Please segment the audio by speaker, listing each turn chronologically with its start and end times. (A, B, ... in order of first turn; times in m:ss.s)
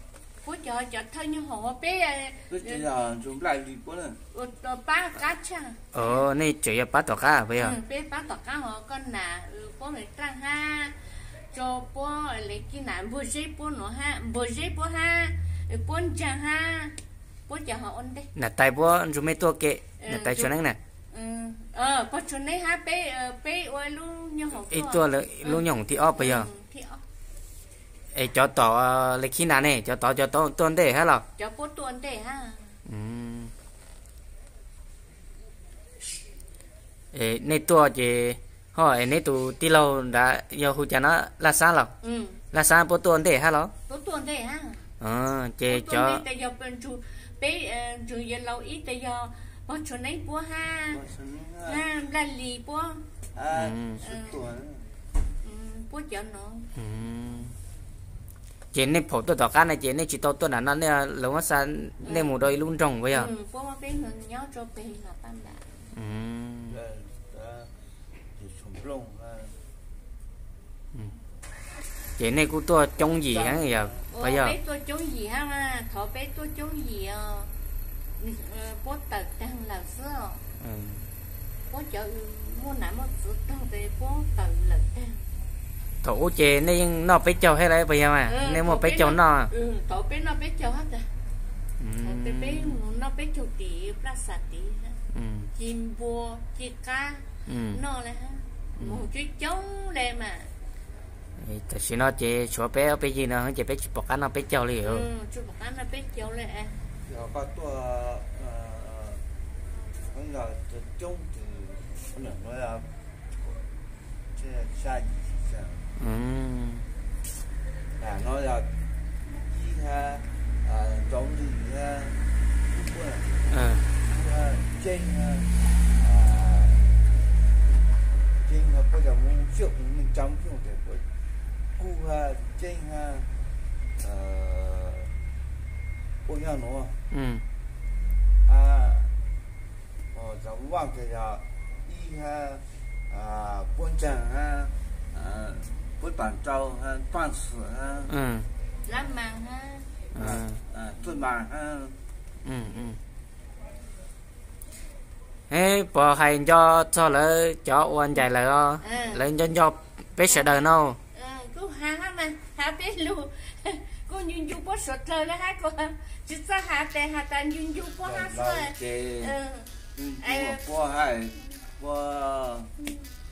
0:00.4-0:02.8 A
0:02.5-0:04.2 B
0:04.3-0:06.2 A
0:05.9-0:07.8 C
0:07.6-0:18.3 A
0:18.3-0:20.8 C
0:20.0-0:20.5 A
0:21.1-0:27.0 A
0:24.6-0:26.5 C
0:28.1-0:31.2 C
0:31.4-0:32.8 A
0:32.8-0:33.5 C
0:37.1-0:41.9 C
0:42.0-0:42.4 A
0:42.5-0:43.7 C
0:43.9-0:44.9 A
0:45.0-0:46.2 C
0:45.7-0:51.0 A
0:50.9-0:51.9 B
0:51.6-0:53.0 A
0:53.3-0:54.8 B
0:53.5-0:54.0 C
0:54.0-0:54.4 A
0:55.4-0:56.7 A
0:56.7-0:57.5 C
0:58.7-1:03.3 C
1:02.0-1:02.4 A
1:03.1-1:05.7 A
1:05.9-1:06.8 C
1:06.7-1:07.7 B
1:08.4-1:09.5 B
1:12.2-1:14.6 C
1:13.3-1:14.1 B
1:14.1-1:17.5 A
1:18.2-1:20.4 A
1:20.6-1:21.1 C
1:21.7-1:25.2 A
1:26.0-1:29.5 C
1:28.2-1:31.1 A
1:31.8-1:32.8 C
1:32.0-1:35.0 A
1:35.1-1:35.5 C
1:35.5-1:40.5 A
1:37.5-1:37.8 C
1:38.8-1:39.0 C
1:41.4-1:45.1 C
1:44.8-1:46.8 A
1:47.0-1:49.2 B
1:50.1-1:52.9 B
1:54.4-1:55.9 B
1:56.0-1:56.9 C
1:58.0-1:58.7 B
1:59.3-2:07.0 B
2:03.5-2:03.9 C
2:08.4-2:11.0 B
2:11.8-2:13.3 B
2:14.0-2:15.1 B
2:16.2-2:17.0 B
2:17.1-2:17.4 C
2:18.4-2:19.1 B
2:20.1-2:28.1 B
2:28.1-2:28.5 C
2:28.8-2:29.9 A
2:30.1-2:30.6 C
2:30.1-2:32.0 B
2:32.4-2:33.0 C
2:35.5-2:41.0 C
2:38.8-2:39.2 A
2:40.3-2:40.6 A
2:41.1-2:50.6 A
2:48.0-2:49.4 B
2:49.9-2:52.7 B